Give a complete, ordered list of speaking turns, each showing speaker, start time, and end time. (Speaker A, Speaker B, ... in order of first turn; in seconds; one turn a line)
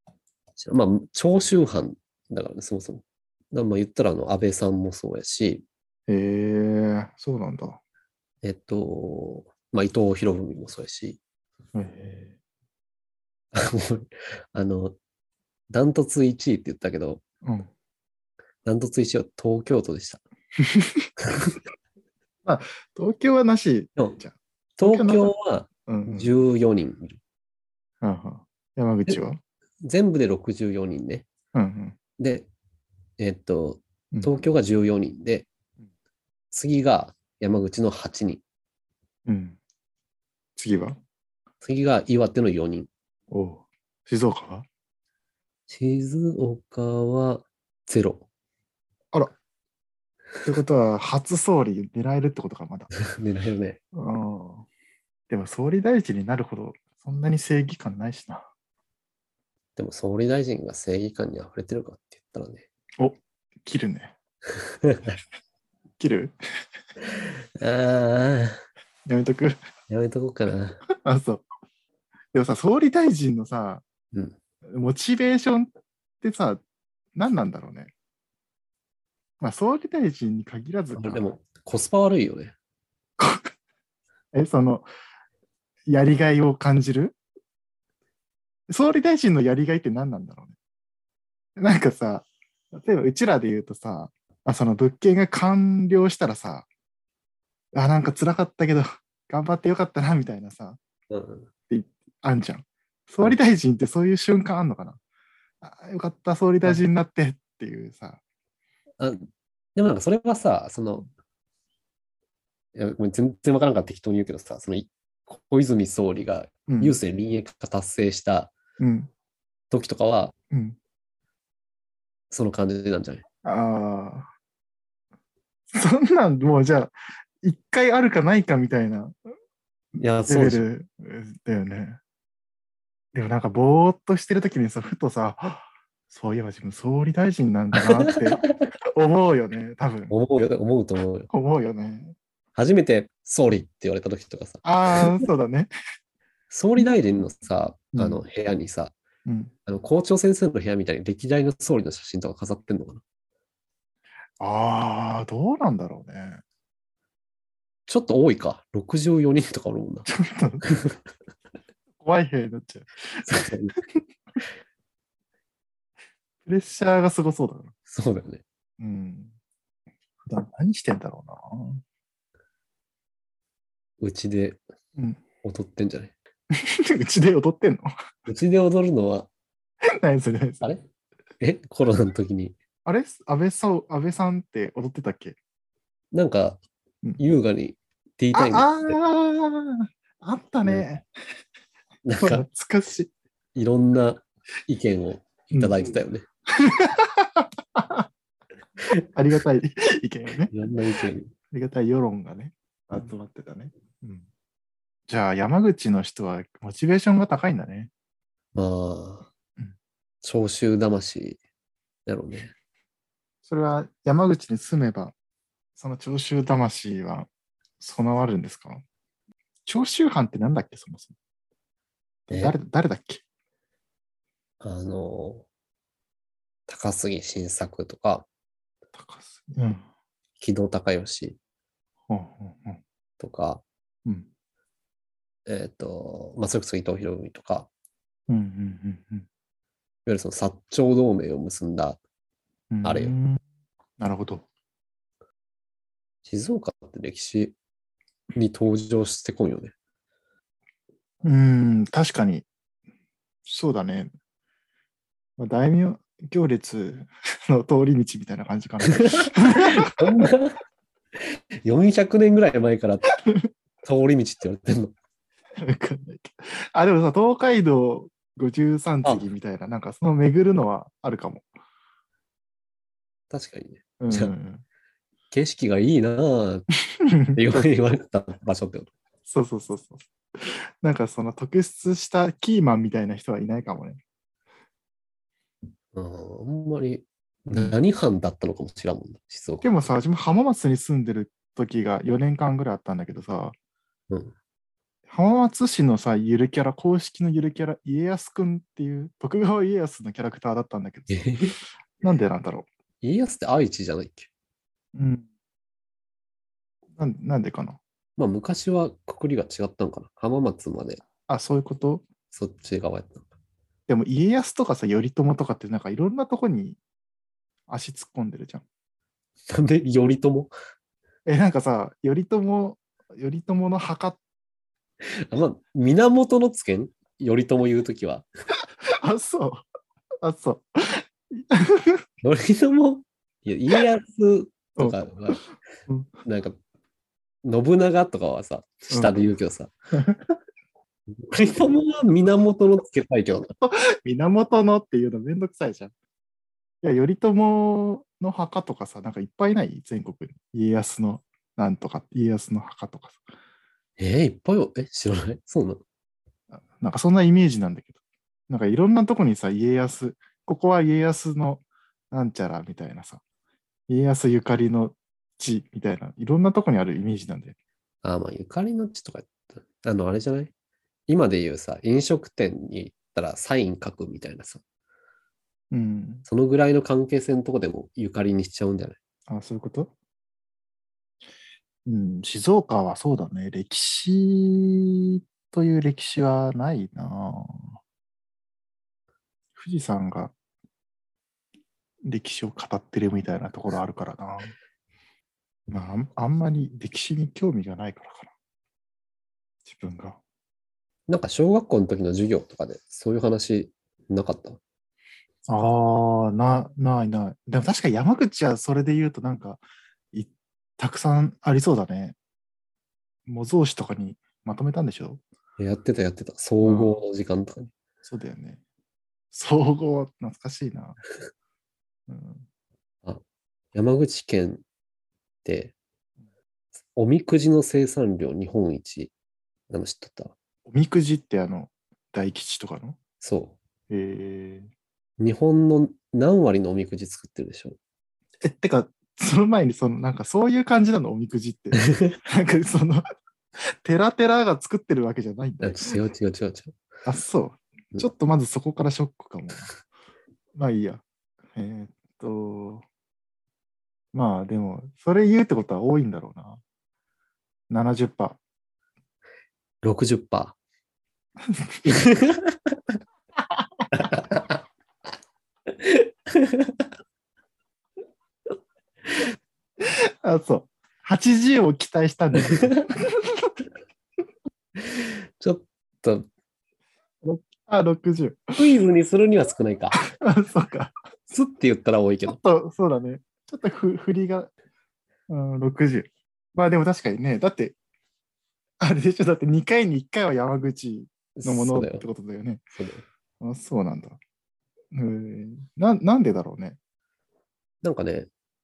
Speaker A: 0.6-5.6
Speaker B: 6.1-7.8
Speaker A: 8.4-11.2
Speaker B: 11.7-12.3
Speaker A: 13.5-14.9
Speaker A: 15.7-17.2
Speaker B: 17.4-17.7
Speaker A: 18.6-20.2
Speaker B: 20.6-21.1
Speaker A: 21.3-21.6
Speaker B: 22.4-25.3
Speaker A: 24.8-27.2
Speaker B: 25.9-26.3
Speaker B: 28.0-29.4
Speaker A: 29.8-31.2
Speaker B: 31.5-32.0
Speaker A: 32.2-32.5
Speaker A: 33.2-35.5
Speaker A: 36.5-38.4
Speaker B: 39.2-39.6
Speaker B: 40.6-41.0
Speaker A: 41.6-42.9
Speaker B: 43.3-44.7
Speaker A: 45.7-48.2
Speaker B: 50.4-52.9
Speaker A: 53.0-53.8
Speaker B: 53.9-54.6
Speaker B: 55.3-58.5
Speaker A: 59.8-62.6
Speaker B: 63.0-64.1
Speaker A: 64.5-65.2
Speaker B: 66.0-66.3
Speaker A: 67.1-68.6
Speaker B: 69.0-69.6
Speaker A: 69.9-70.8
Speaker B: 71.0-71.5
Speaker B: 72.3-73.8
Speaker B: 74.7-75.7
Speaker B: 76.2-76.6
Speaker B: 77.1-77.9
Speaker B: 79.4-81.3
Speaker A: 81.0-82.5
Speaker B: 83.2-83.5
Speaker B: 84.3-84.9
Speaker B: 85.9-87.2
Speaker B: 88.7-90.5
Speaker B: 91.6-96.7
Speaker B: 97.7-100.8
Speaker A: 101.1-101.5
Speaker B: 101.7-105.0
Speaker B: 105.6-108.2
Speaker A: 109.0-111.1
Speaker A: 112.7-118.5
Speaker B: 116.7-117.0
Speaker B: 118.8-119.1
Speaker A: 119.7-120.3
Speaker B: 120.5-120.8
Speaker A: 122.3-123.2
Speaker B: 123.4-124.3
Speaker B: 125.7-129.2
Speaker A: 130.0-130.6
Speaker B: 130.3-132.0
Speaker B: 133.1-138.4
Speaker A: 137.7-138.6
Speaker B: 138.9-140.1
Speaker A: 140.1-141.3
Speaker B: 141.3-142.1
Speaker A: 142.5-145.2
Speaker B: 144.6-145.7
Speaker A: 146.5-148.9
Speaker B: 147.9-148.2
Speaker B: 149.2-149.5
Speaker A: 149.7-153.0
Speaker B: 154.4-156.4
Speaker A: 157.9-160.1
Speaker B: 160.1-160.6
Speaker A: 160.6-161.0
Speaker B: 162.0-163.2
Speaker A: 163.2-163.7
Speaker B: 166.4-167.7
Speaker A: 167.9-168.4
Speaker B: 168.8-169.3
Speaker B: 170.2-171.8
Speaker A: 174.0-174.6
Speaker A: 175.4-176.1
Speaker B: 176.5-177.9
Speaker A: 178.3-179.3
Speaker B: 179.9-180.7
Speaker A: 181.4-182.5
Speaker B: 182.8-185.4
Speaker A: 186.1-186.6
Speaker A: 187.2-189.0
Speaker B: 188.3-191.1
Speaker A: 192.1-192.4
Speaker B: 192.2-193.1
Speaker A: 193.5-196.2
Speaker B: 195.5-195.9
Speaker B: 196.5-198.1
Speaker B: 199.1-200.5
Speaker A: 200.5-201.3
Speaker B: 201.5-204.3
Speaker B: 205.1-207.9
Speaker A: 208.5-209.3
Speaker A: 210.2-211.4
Speaker A: 212.1-212.5
Speaker B: 213.4-215.1
Speaker B: 215.8-217.3
Speaker B: 217.8-218.8
Speaker B: 219.7-221.2
Speaker B: 222.3-223.2
Speaker A: 222.3-222.6
Speaker A: 224.6-225.4
Speaker A: 226.7-228.3
Speaker B: 228.9-229.8
Speaker A: 230.4-231.4
Speaker B: 232.1-232.8
Speaker A: 233.2-233.6
Speaker A: 235.5-237.7
Speaker B: 238.3-239.2
Speaker A: 240.1-242.0
Speaker B: 242.7-243.4
Speaker A: 242.8-243.1
Speaker B: 244.0-244.4
Speaker A: 246.2-247.5
Speaker A: 248.3-249.7
Speaker B: 251.2-252.4
Speaker B: 253.4-254.1
Speaker B: 255.4-260.3
Speaker A: 259.0-260.6
Speaker A: 261.6-263.1
Speaker A: 263.8-264.9
Speaker B: 265.6-271.4
Speaker A: 273.3-274.3
Speaker B: 274.0-274.6
Speaker A: 275.3-276.7
Speaker B: 276.9-277.7
Speaker A: 277.3-278.9
Speaker B: 279.3-284.0
Speaker A: 285.9-289.8
Speaker B: 289.6-293.5
Speaker B: 295.1-301.5
Speaker A: 301.1-301.6
Speaker B: 302.0-302.7
Speaker A: 303.0-304.3
Speaker B: 304.9-305.2
Speaker B: 307.0-307.8
Speaker A: 308.2-311.0
Speaker B: 311.3-312.0
Speaker A: 312.3-313.2
Speaker B: 313.9-316.8
Speaker B: 317.7-318.6
Speaker A: 319.5-320.5
Speaker B: 321.2-324.2
Speaker A: 325.3-328.3
Speaker B: 328.9-329.6
Speaker B: 330.2-332.0
Speaker A: 332.2-335.5
Speaker B: 334.8-336.1
Speaker A: 336.2-336.6
Speaker A: 337.4-339.7
Speaker B: 338.9-339.2
Speaker B: 339.9-340.3
Speaker A: 341.1-343.5
Speaker B: 343.6-345.9
Speaker B: 346.8-353.2
Speaker A: 354.0-355.8
Speaker B: 356.6-358.0
Speaker B: 358.5-363.2
Speaker B: 363.9-367.6
Speaker A: 368.0-370.5
Speaker A: 371.1-374.6
Speaker B: 375.7-376.2
Speaker A: 376.3-379.0
Speaker B: 379.3-379.9
Speaker B: 381.9-387.8
Speaker B: 389.6-390.3
Speaker B: 392.0-394.5
Speaker B: 395.7-398.3
Speaker B: 399.6-400.2
Speaker A: 401.1-404.6
Speaker B: 405.5-409.6
Speaker B: 410.1-412.2
Speaker B: 413.3-415.2
Speaker A: 415.6-417.7
Speaker B: 416.6-416.9
Speaker B: 418.0-418.6
Speaker B: 419.3-421.0
Speaker B: 422.1-422.4
Speaker A: 423.7-424.6
Speaker A: 425.4-425.7
Speaker A: 426.9-429.1
Speaker A: 429.7-430.4
Speaker B: 430.6-433.0
Speaker A: 433.2-433.6
Speaker B: 433.9-434.7
Speaker A: 435.2-437.8
Speaker B: 438.4-443.0
Speaker A: 441.8-442.1
Speaker B: 443.8-446.0
Speaker A: 445.6-446.8
Speaker B: 447.1-449.7
Speaker B: 450.5-451.0
Speaker B: 451.5-452.8
Speaker B: 454.1-456.6
Speaker B: 457.7-458.4
Speaker A: 459.8-460.6
Speaker B: 461.5-461.8
Speaker A: 461.8-462.8
Speaker B: 463.5-464.2
Speaker A: 463.9-464.5
Speaker A: 465.7-466.9
Speaker B: 469.8-473.5
Speaker A: 472.4-472.9
Speaker A: 474.8-476.3
Speaker B: 477.2-478.5
Speaker A: 478.6-480.0
Speaker B: 480.2-480.9
Speaker A: 481.3-482.4
Speaker B: 482.2-484.5
Speaker B: 485.3-487.8
Speaker B: 488.8-492.6
Speaker A: 491.4-492.1
Speaker A: 492.7-493.0
Speaker B: 493.4-494.2
Speaker B: 494.9-496.8
Speaker A: 497.8-498.3